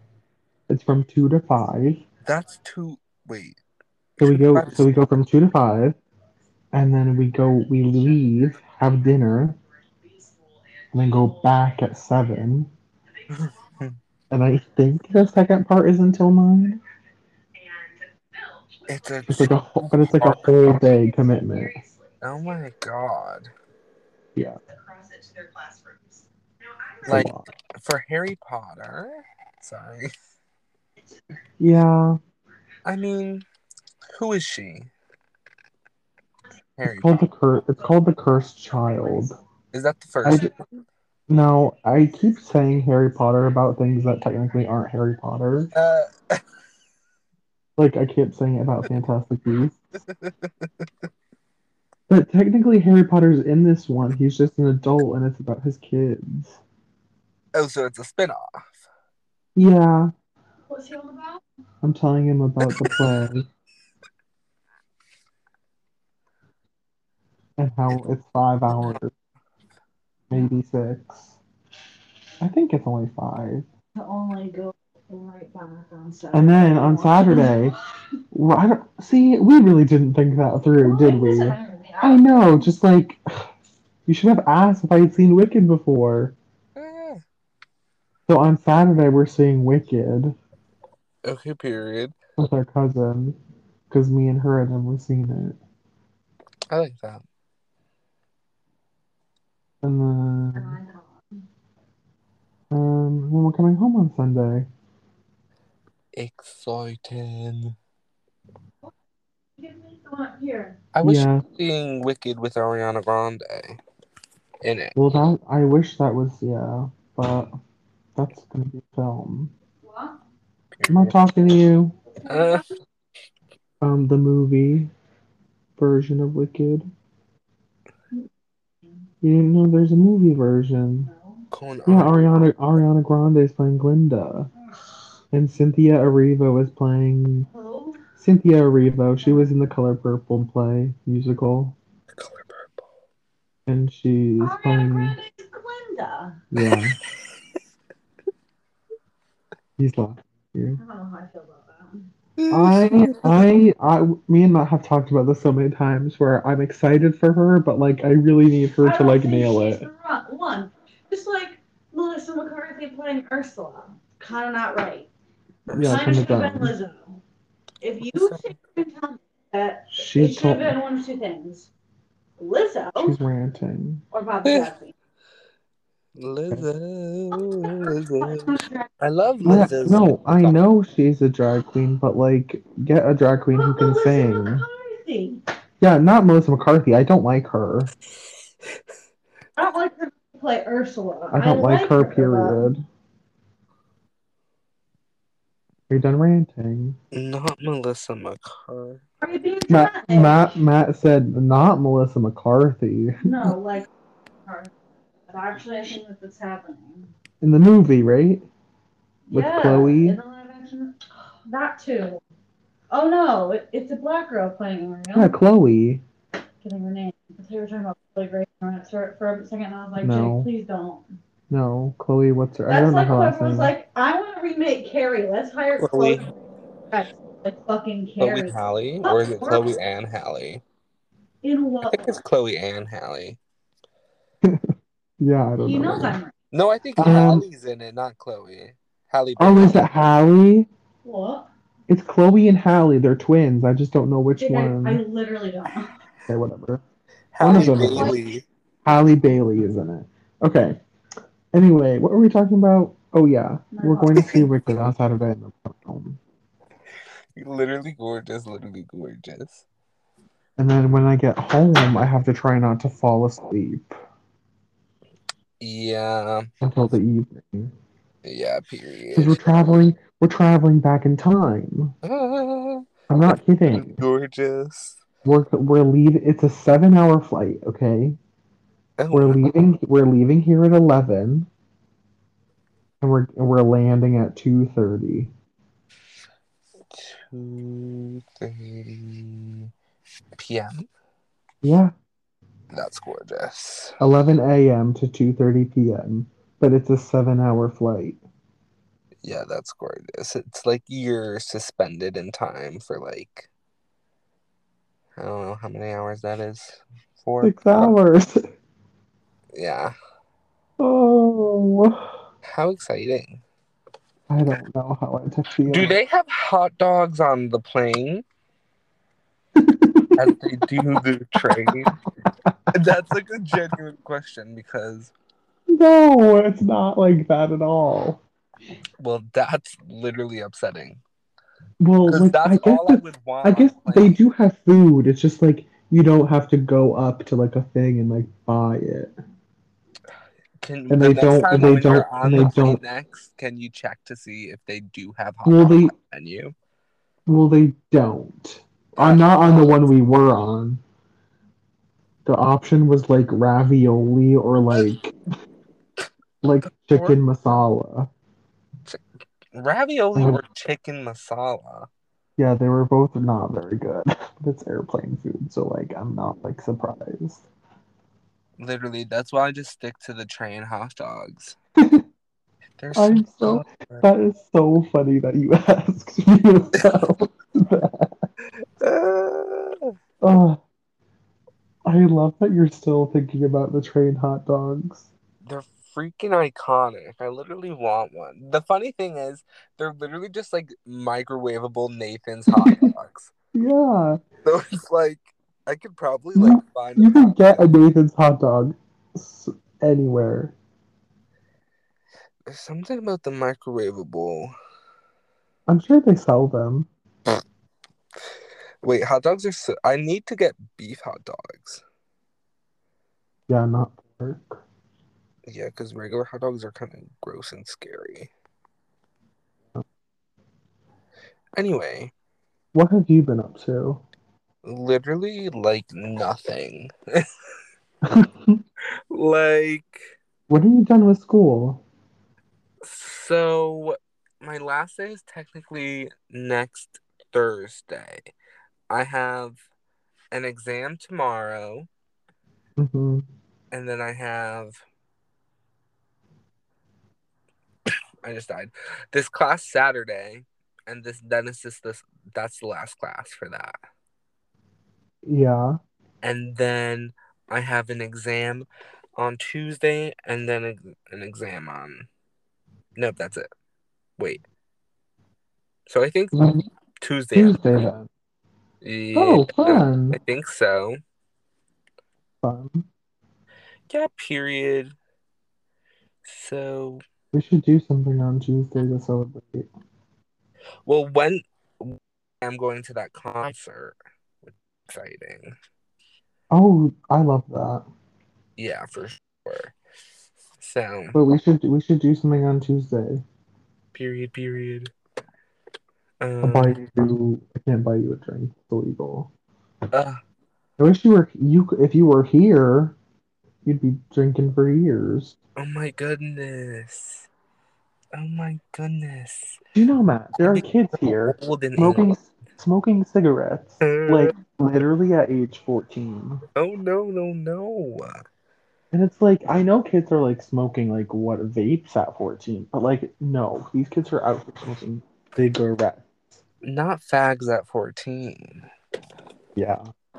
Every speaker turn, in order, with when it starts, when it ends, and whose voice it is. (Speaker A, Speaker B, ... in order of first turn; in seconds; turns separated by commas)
Speaker A: 0.7-2.0, Speaker B: 2.2-3.6, Speaker B: 4.2-5.0, Speaker A: 4.2-6.0, Speaker A: 6.7-9.6, Speaker A: 10.9-12.7, Speaker B: 13.3-14.0, Speaker A: 14.3-16.8, Speaker B: 18.9-20.7, Speaker A: 19.3-21.8, Speaker B: 22.2-23.5, Speaker A: 27.0-27.4, Speaker B: 27.0-30.1, Speaker A: 31.6-32.2, Speaker B: 32.8-33.4, Speaker B: 34.1-34.9, Speaker B: 36.8-37.3, Speaker A: 36.8-39.3, Speaker B: 39.7-40.5, Speaker A: 40.2-40.5, Speaker A: 41.3-45.7, Speaker B: 45.7-46.4, Speaker A: 47.8-49.8, Speaker B: 50.0-51.1, Speaker A: 52.1-56.6, Speaker B: 57.5-58.9, Speaker A: 59.5-60.1, Speaker C: 60.7-61.4, Speaker A: 61.8-63.5, Speaker B: 62.6-63.1, Speaker A: 67.6-69.1, Speaker A: 70.3-71.3, Speaker A: 72.4-73.7, Speaker C: 74.0-77.6, Speaker A: 76.3-77.8, Speaker A: 78.3-83.2, Speaker C: 80.8-82.7, Speaker A: 84.0-86.3, Speaker B: 86.7-87.2, Speaker A: 88.3-90.3, Speaker B: 91.2-92.1, Speaker A: 92.4-93.4, Speaker A: 93.9-95.6, Speaker B: 96.7-97.2, Speaker A: 99.8-100.8, Speaker C: 100.5-101.0, Speaker A: 102.7-104.7, Speaker B: 106.1-107.8, Speaker C: 109.6-110.8, Speaker B: 110.9-113.8, Speaker A: 111.0-111.4, Speaker B: 114.6-115.0, Speaker A: 115.0-117.5, Speaker A: 118.2-119.5, Speaker C: 119.8-120.2, Speaker B: 120.7-121.1, Speaker A: 120.9-122.0, Speaker C: 122.2-122.7, Speaker B: 122.2-122.7, Speaker A: 123.8-124.9, Speaker A: 125.8-126.9, Speaker A: 129.2-131.1, Speaker B: 131.5-132.3, Speaker A: 131.8-134.5, Speaker A: 135.3-137.5, Speaker C: 137.5-138.0, Speaker A: 138.2-141.8, Speaker B: 142.1-142.8, Speaker A: 143.7-145.2, Speaker C: 144.4-146.4, Speaker A: 146.5-147.0, Speaker A: 149.8-150.8, Speaker C: 150.8-152.1, Speaker B: 152.4-153.3, Speaker A: 152.5-159.9, Speaker C: 158.8-165.1, Speaker B: 165.7-166.3, Speaker A: 165.7-166.7, Speaker C: 165.8-167.2, Speaker C: 167.8-171.7, Speaker B: 168.0-168.4, Speaker A: 169.9-170.8, Speaker C: 172.4-173.2, Speaker A: 172.9-174.0, Speaker C: 174.1-174.9, Speaker B: 174.4-174.7, Speaker B: 176.1-180.6, Speaker C: 177.7-178.9, Speaker A: 179.4-184.7, Speaker C: 183.5-185.4, Speaker A: 185.8-187.9, Speaker B: 188.2-188.8, Speaker C: 189.6-192.7, Speaker A: 191.3-192.8, Speaker A: 195.9-197.0, Speaker B: 197.1-199.0, Speaker C: 199.2-200.4, Speaker A: 199.7-203.2, Speaker C: 203.2-203.9, Speaker C: 204.4-204.7, Speaker C: 205.3-207.1, Speaker A: 207.4-208.4, Speaker C: 209.3-212.2, Speaker A: 209.3-210.2, Speaker C: 212.9-215.3, Speaker A: 215.1-216.0, Speaker C: 216.6-221.1, Speaker A: 220.0-220.5, Speaker A: 221.5-223.7, Speaker C: 222.7-226.3, Speaker B: 225.8-226.2, Speaker C: 226.9-229.7, Speaker B: 228.2-230.6, Speaker C: 231.4-232.2, Speaker B: 231.8-233.4, Speaker A: 234.4-236.2, Speaker C: 235.6-236.3, Speaker B: 236.5-239.9, Speaker A: 237.0-237.4, Speaker A: 239.4-240.7, Speaker C: 241.0-241.5, Speaker A: 241.9-245.0, Speaker C: 244.4-245.9, Speaker A: 246.3-246.8, Speaker B: 247.3-248.4, Speaker A: 247.4-248.2, Speaker C: 247.5-248.2, Speaker A: 248.8-250.8, Speaker A: 251.5-256.2, Speaker C: 253.7-254.4, Speaker B: 254.2-254.5, Speaker B: 257.4-259.6, Speaker A: 260.6-264.0, Speaker B: 265.6-266.5, Speaker A: 266.6-267.7, Speaker B: 268.2-269.4, Speaker A: 269.1-271.9, Speaker B: 272.0-272.9, Speaker A: 273.1-274.0, Speaker B: 273.7-275.0, Speaker A: 275.2-278.2, Speaker B: 279.0-279.5, Speaker A: 279.1-281.5, Speaker A: 283.0-285.3, Speaker B: 286.9-289.7, Speaker B: 290.3-290.9, Speaker A: 291.6-291.9, Speaker B: 292.7-294.0, Speaker A: 294.0-298.2, Speaker B: 299.2-303.5, Speaker B: 305.1-307.9, Speaker A: 307.4-308.4, Speaker B: 309.5-309.9, Speaker A: 310.8-312.1, Speaker B: 312.4-313.4, Speaker A: 314.3-315.9, Speaker B: 315.7-318.2, Speaker A: 319.6-320.3, Speaker B: 320.1-321.9, Speaker A: 322.2-322.7, Speaker B: 322.7-325.1, Speaker A: 325.7-328.2, Speaker B: 329.0-331.0, Speaker A: 331.8-339.1, Speaker B: 332.1-334.2, Speaker B: 340.6-346.5, Speaker A: 340.9-342.8, Speaker A: 345.4-345.9, Speaker A: 347.3-350.8, Speaker B: 349.0-349.6, Speaker A: 352.2-355.1, Speaker A: 356.4-358.1, Speaker B: 359.5-361.9, Speaker A: 360.1-360.4, Speaker A: 362.4-367.4, Speaker B: 368.6-371.6, Speaker A: 371.8-372.0, Speaker B: 372.8-374.1, Speaker A: 372.9-378.2, Speaker B: 378.6-379.9, Speaker A: 380.2-380.6, Speaker A: 381.9-385.1, Speaker B: 385.4-393.3, Speaker A: 392.5-392.9, Speaker A: 393.5-394.2, Speaker B: 394.4-397.7, Speaker A: 396.3-400.5, Speaker B: 402.4-404.5, Speaker A: 405.7-406.9, Speaker B: 408.8-411.8, Speaker A: 413.5-414.6, Speaker B: 415.5-418.3, Speaker B: 421.6-422.1, Speaker A: 422.7-424.0, Speaker B: 424.6-427.3, Speaker A: 428.1-428.6, Speaker B: 429.1-430.1, Speaker A: 430.5-431.8, Speaker B: 432.8-438.2, Speaker B: 438.9-439.6, Speaker B: 440.3-441.9, Speaker A: 442.8-443.2, Speaker B: 443.7-444.8, Speaker B: 448.2-453.8, Speaker A: 455.2-455.8, Speaker B: 456.2-462.1, Speaker B: 462.9-463.5, Speaker B: 465.9-466.4, Speaker A: 466.3-466.6, Speaker B: 467.0-467.9, Speaker A: 467.3-468.1, Speaker B: 468.8-471.0, Speaker A: 469.1-470.2, Speaker A: 472.4-472.9, Speaker B: 473.9-474.9, Speaker B: 476.2-477.0, Speaker A: 477.3-479.7, Speaker B: 480.9-485.5, Speaker A: 486.5-487.8, Speaker B: 488.6-489.7, Speaker B: 490.6-491.2, Speaker A: 491.1-493.2, Speaker B: 493.9-494.9, Speaker B: 496.2-496.8, Speaker A: 496.4-499.3, Speaker B: 499.9-500.2, Speaker A: 500.8-503.0, Speaker A: 503.6-505.4, Speaker B: 505.6-507.3, Speaker B: 508.1-509.6, Speaker A: 509.7-516.4, Speaker B: 510.4-512.1, Speaker B: 513.8-514.3, Speaker B: 516.5-518.2, Speaker A: 518.9-526.1, Speaker B: 526.6-528.7, Speaker A: 529.5-529.9